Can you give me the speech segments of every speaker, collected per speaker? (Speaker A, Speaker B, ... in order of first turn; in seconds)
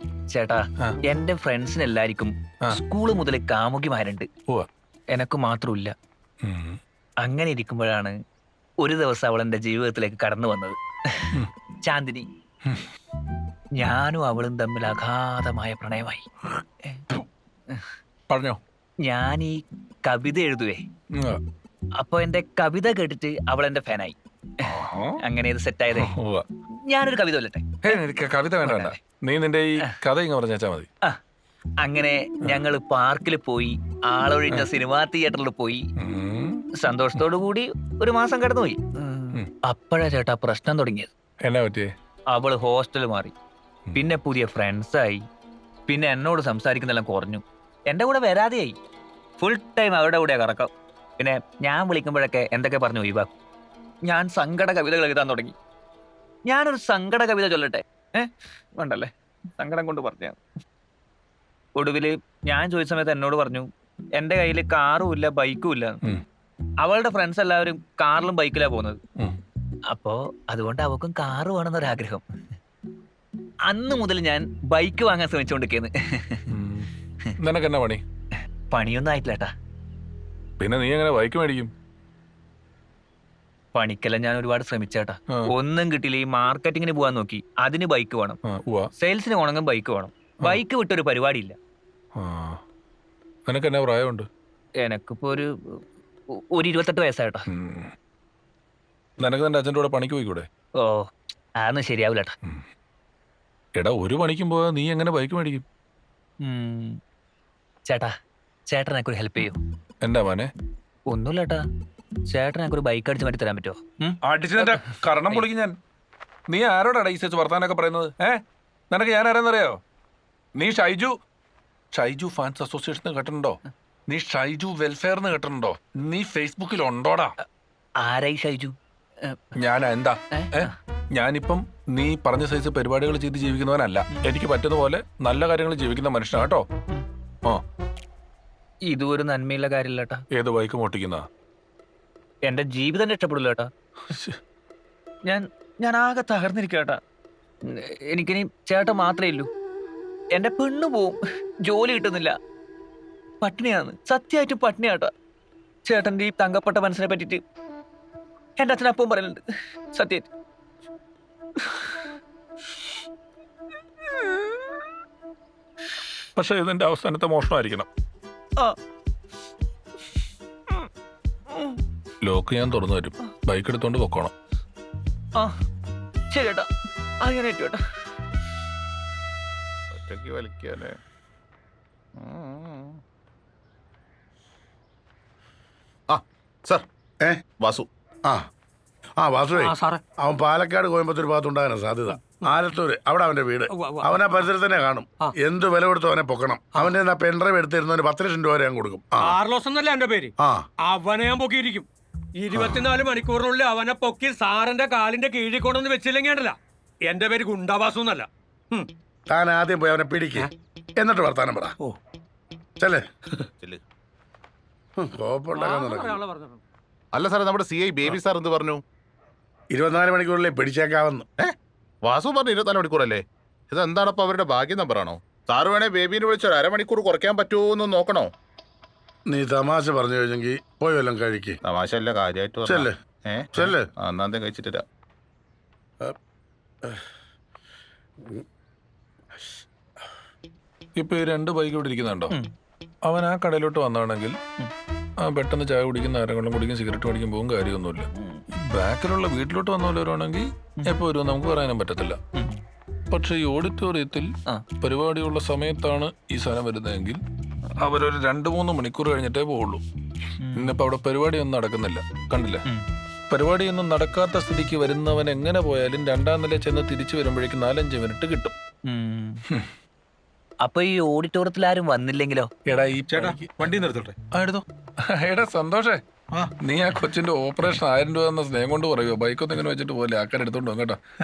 Speaker A: 0.3-4.3, 5.1-5.9, 7.2-8.1, 8.8-11.3, 11.8-12.3, 13.8-16.2, 19.0-20.8, 22.0-26.1, 26.9-28.0, 28.6-29.0, 31.8-35.8, 36.8-41.1, 42.3-43.3, 43.9-45.2, 45.9-48.8, 49.4-53.3, 54.1-55.5, 56.5-60.4, 61.8-63.7, 64.2-66.0, 66.8-69.0, 69.9-72.2, 73.7-76.5, 78.7-79.5, 83.7-88.4, 89.0-91.5, 94.8-95.8, 96.5-97.4, 100.8-102.3, 106.4-107.0, 108.7-109.6, 111.1-111.6, 112.3-115.4, 128.0-129.4, 130.3-130.7, 138.9-140.2, 142.4-143.7, 145.3-147.0, 147.7-149.5, 150.3-152.3, 153.4-155.1, 155.9-157.4, 158.6-159.4, 159.9-160.3, 161.6-161.9, 171.5-171.8, 176.3-176.7, 177.2-177.8, 248.1-248.4, 252.3-252.6, 260.4-260.8, 268.9-269.4, 270.6-272.5
Speaker B: 6.4-6.8, 18.3-18.6, 21.1-21.4, 24.6-25.2, 26.0-26.4, 27.8-30.9, 36.0-36.6, 41.4-41.9, 76.5-76.9, 77.4-78.0, 80.6-81.7, 88.5-88.9, 92.2-92.6, 93.5-94.3, 97.5-97.9, 99.2-100.5, 103.8-105.6, 110.0-110.5, 114.2-115.8, 116.5-119.8, 120.6-121.1, 121.9-127.3, 129.6-136.6, 140.3-141.2, 144.1-144.4, 166.3-167.9, 172.2-174.3, 240.9-242.3, 243.1-244.3, 245.2-252.2, 253.1-257.2, 257.8-259.8, 260.5-262.6, 263.3-268.5, 272.7-273.7, 274.3-276.0, 276.6-281.0
Speaker C: 179.9-181.0, 182.2-183.0, 186.1-186.8, 187.6-187.9, 217.1-218.8, 221.4-228.3, 231.6-234.8
Speaker D: 189.2-199.4, 202.5-202.9, 209.3-211.7, 215.0-216.2, 219.7-221.2, 229.3-231.6, 232.7-232.9, 233.5-233.9
Speaker E: 189.5-190.0, 193.7-194.4, 199.2-208.9, 215.5-216.6